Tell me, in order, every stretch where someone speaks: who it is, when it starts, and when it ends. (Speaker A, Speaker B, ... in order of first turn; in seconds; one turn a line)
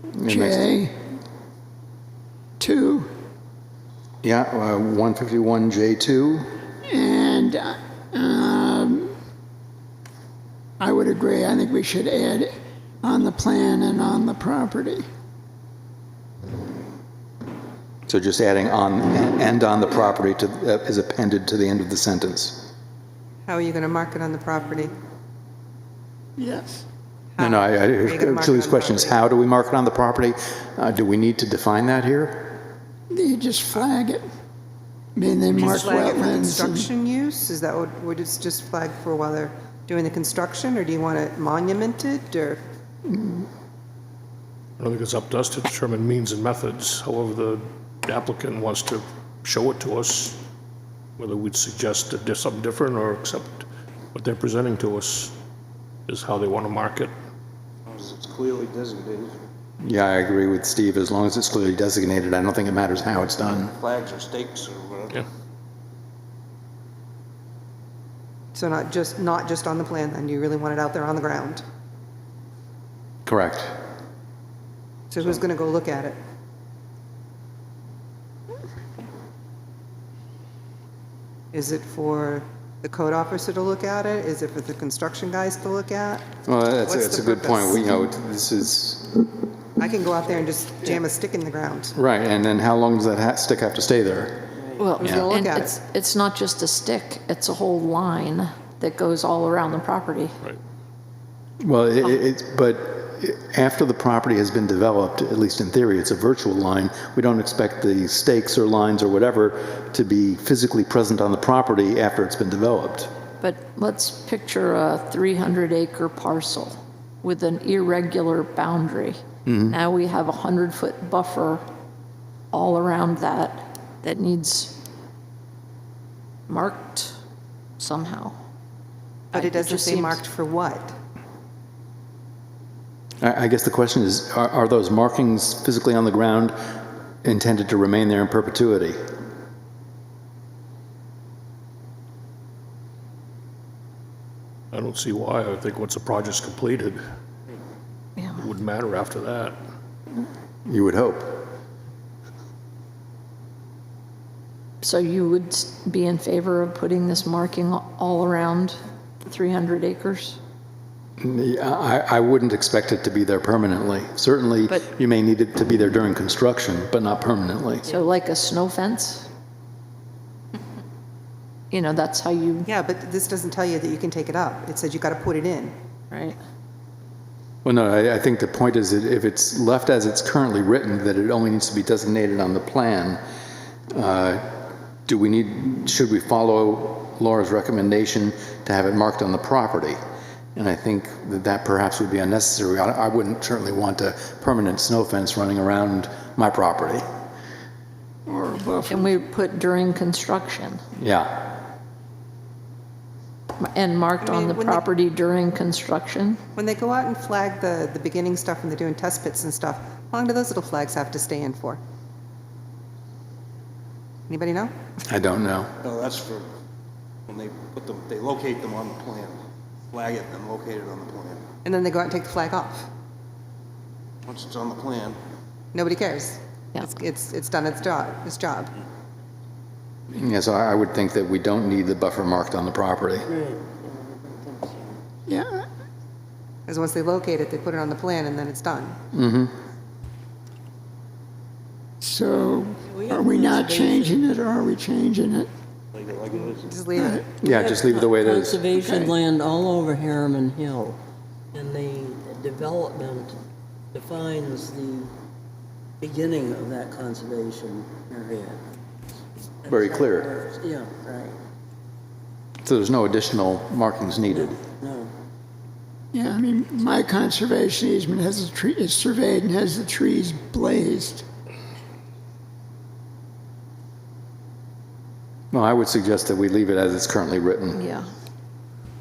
Speaker A: 0.2-0.7
Speaker B: 0.3-0.9
Speaker B: 2.6-3.1
Speaker A: 4.2-6.5
Speaker B: 6.9-9.1
Speaker B: 10.8-15.0
Speaker A: 18.1-22.7
Speaker C: 23.5-25.0
Speaker B: 26.4-26.8
Speaker C: 27.4-29.2
Speaker A: 27.4-32.6
Speaker B: 33.1-34.3
Speaker B: 35.2-36.9
Speaker C: 35.6-42.6
Speaker D: 44.8-50.4
Speaker D: 51.2-55.4
Speaker D: 56.1-57.1
Speaker E: 57.9-59.4
Speaker A: 59.8-63.7
Speaker E: 63.7-65.2
Speaker C: 68.5-71.6
Speaker A: 73.3-73.7
Speaker C: 75.1-76.2
Speaker C: 81.5-86.3
Speaker A: 86.5-89.3
Speaker C: 86.9-87.9
Speaker C: 89.8-92.0
Speaker A: 92.0-94.4
Speaker F: 94.8-100.4
Speaker C: 95.0-95.8
Speaker A: 95.0-95.3
Speaker A: 101.6-113.1
Speaker F: 113.4-121.6
Speaker A: 119.5-119.8
Speaker F: 122.5-124.8
Speaker F: 126.5-127.2
Speaker F: 127.8-128.4
Speaker F: 129.3-130.2
Speaker C: 129.3-130.9
Speaker A: 133.2-136.6
Speaker A: 137.2-139.0
Speaker D: 144.7-147.0
Speaker D: 148.4-149.6
Speaker A: 150.7-151.5
Speaker F: 154.8-160.4
Speaker A: 161.2-167.8
Speaker F: 167.9-169.3
Speaker F: 171.7-172.7
Speaker C: 172.7-175.7
Speaker F: 176.1-176.4
Speaker A: 177.6-183.2
Speaker A: 183.9-190.0
Speaker A: 190.6-197.1
Speaker B: 198.3-199.2
Speaker F: 198.9-200.8
Speaker A: 201.0-201.6
Speaker F: 203.6-206.4
Speaker C: 204.2-204.8
Speaker C: 206.6-211.8
Speaker C: 214.3-214.7
Speaker A: 215.1-215.7
Speaker E: 215.8-216.5
Speaker E: 217.3-219.4
Speaker E: 219.9-221.4
Speaker C: 221.6-222.9
Speaker E: 224.3-225.2
Speaker C: 225.7-228.7
Speaker A: 230.1-233.3
Speaker G: 233.3-235.0
Speaker B: 235.3-235.7
Speaker C: 236.7-239.0
Speaker A: 239.1-239.5
Speaker B: 242.0-245.5
Speaker G: 242.9-244.4
Speaker E: 245.9-246.8
Speaker C: 246.6-247.3
Speaker G: 246.9-251.0
Speaker A: 247.4-248.7
Speaker B: 248.8-249.2
Speaker G: 251.5-253.3
Speaker G: 253.9-255.1
Speaker G: 256.0-258.6
Speaker G: 259.6-261.4
Speaker A: 259.7-260.3
Speaker A: 262.6-264.6
Speaker G: 264.3-265.1
Speaker B: 266.1-271.2
Speaker A: 275.5-277.8
Speaker F: 277.8-278.1